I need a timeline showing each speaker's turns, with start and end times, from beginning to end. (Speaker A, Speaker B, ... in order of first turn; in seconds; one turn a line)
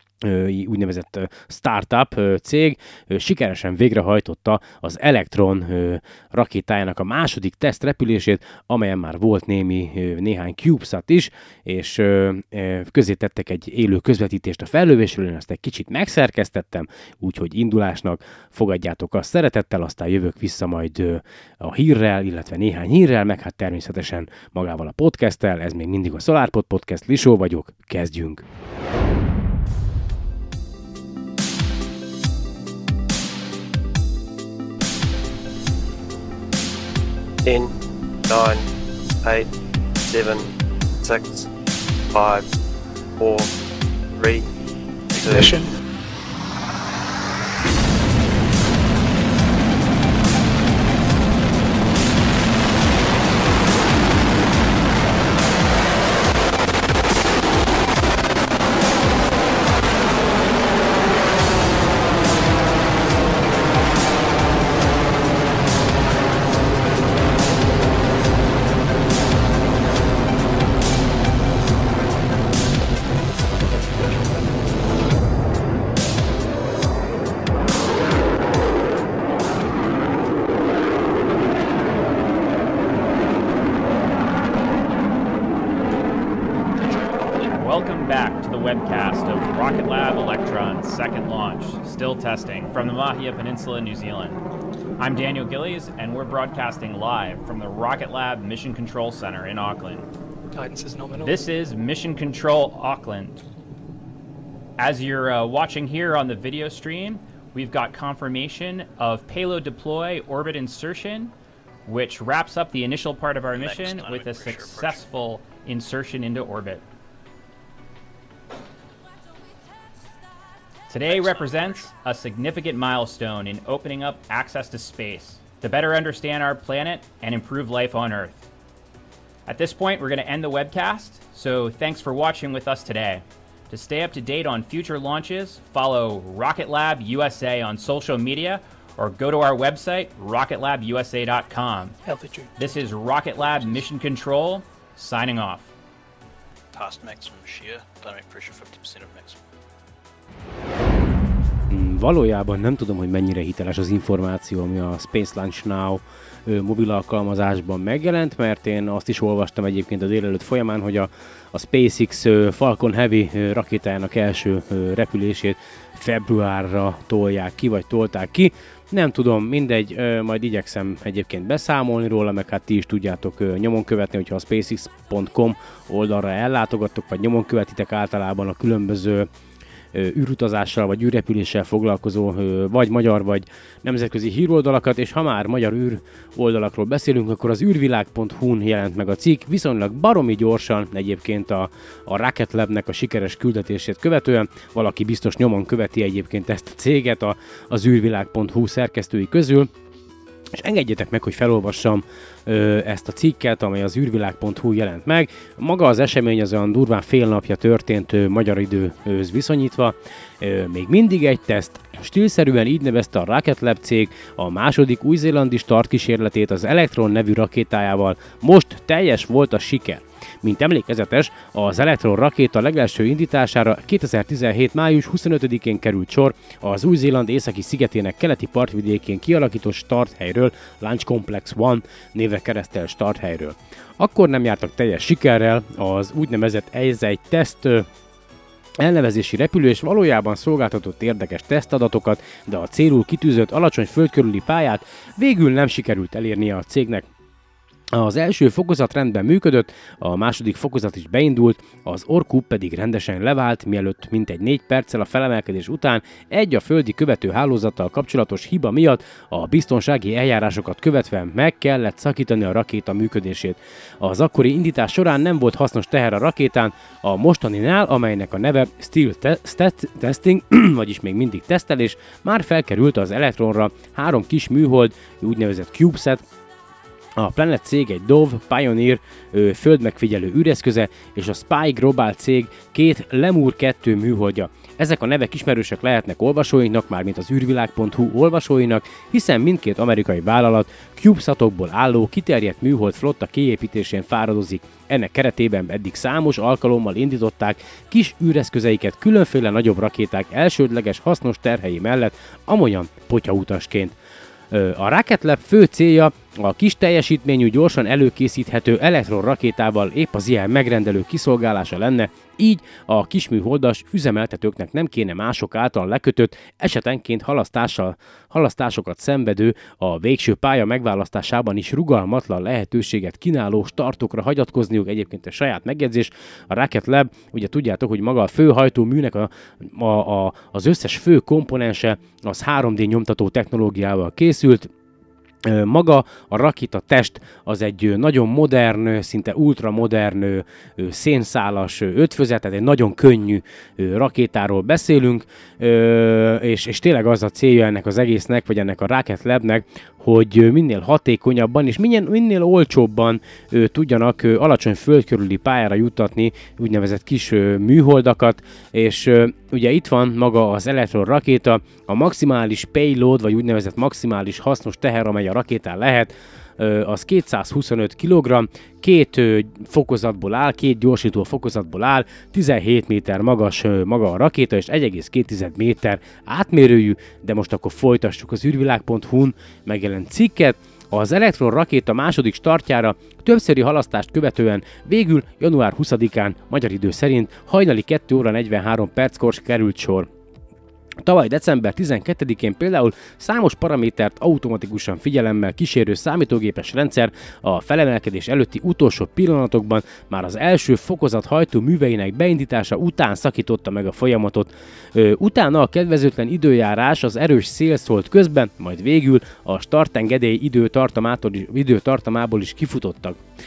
Speaker A: 0.2-28.4
Speaker B: 37.4-37.7
Speaker B: 38.3-38.7
Speaker B: 39.2-39.5
Speaker B: 40.1-40.5
Speaker B: 41.0-41.5
Speaker B: 42.1-42.5
Speaker B: 43.2-43.5
Speaker B: 44.2-44.5
Speaker C: 45.1-45.7
Speaker B: 45.2-45.6
Speaker D: 87.5-94.4
Speaker D: 95.0-100.1
Speaker C: 100.5-101.4
Speaker D: 101.2-103.4
Speaker D: 104.8-111.3
Speaker D: 111.9-116.8
Speaker E: 113.5-115.0
Speaker D: 120.9-128.5
Speaker E: 121.1-121.8
Speaker D: 129.5-142.0
Speaker C: 142.0-142.5
Speaker D: 142.6-145.7
Speaker E: 146.7-149.4
Speaker A: 151.7-179.3
Speaker A: 179.9-199.7
Speaker A: 200.6-237.9
Speaker A: 238.8-247.1
Speaker A: 247.9-276.2
Speaker A: 277.2-303.9
Speaker A: 304.5-334.7
Speaker A: 335.4-390.1
Speaker A: 391.1-413.2